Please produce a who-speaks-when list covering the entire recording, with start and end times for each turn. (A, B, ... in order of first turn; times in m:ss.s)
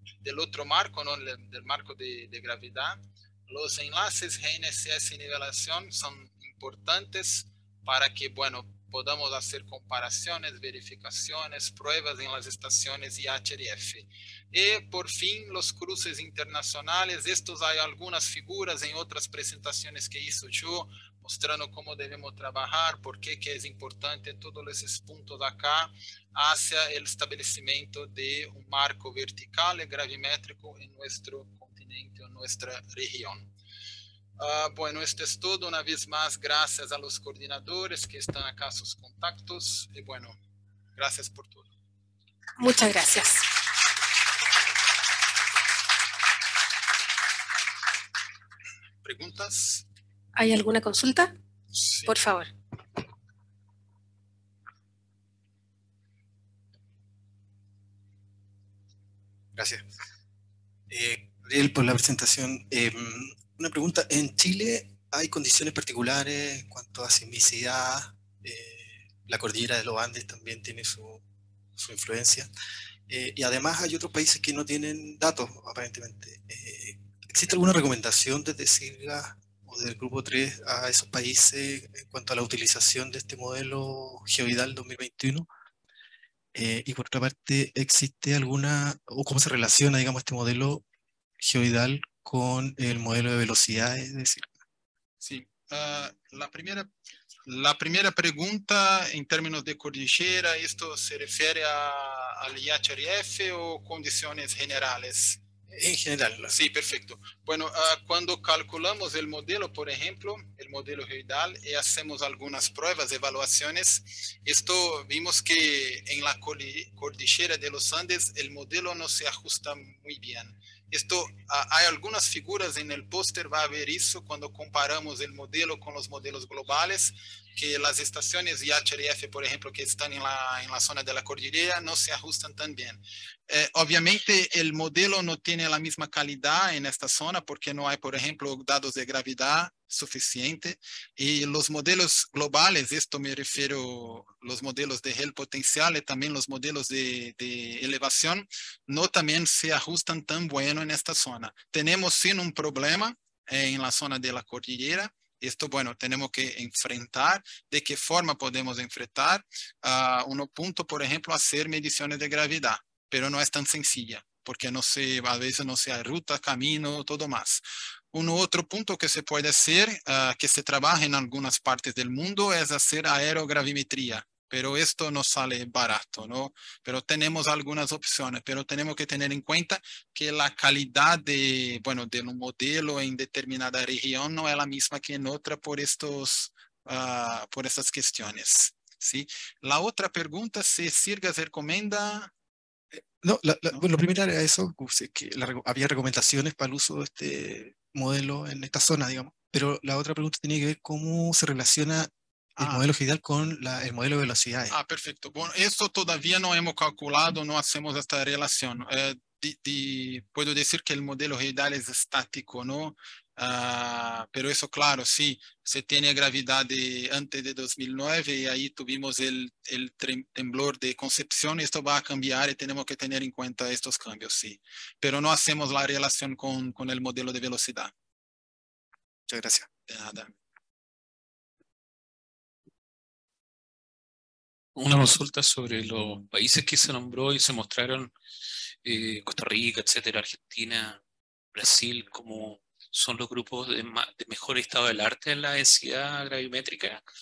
0:00.2-0:33.5 A
0:34.4-0:40.4 A
0:41.0-0:41.7 A
0:42.6-0:43.4 B
0:49.0-0:49.8 A
0:50.4-0:51.3 B
0:51.7-0:52.2 A
0:52.1-0:52.5 B
0:59.5-0:59.8 C
1:00.9-1:11.2 C
1:11.8-1:12.5 C
1:13.1-1:25.5 C
1:26.5-1:30.8 C
1:31.4-1:34.6 C
1:35.2-1:36.9 A
1:37.5-1:45.4 A
1:45.7-1:46.5 C
1:46.5-3:12.3 A
3:12.9-3:24.7 C
3:24.7-3:47.9 A
3:49.3-3:49.7 C
3:49.9-3:50.3 A
3:54.8-3:58.1 D
3:58.8-4:01.0 D
4:01.5-4:07.0 D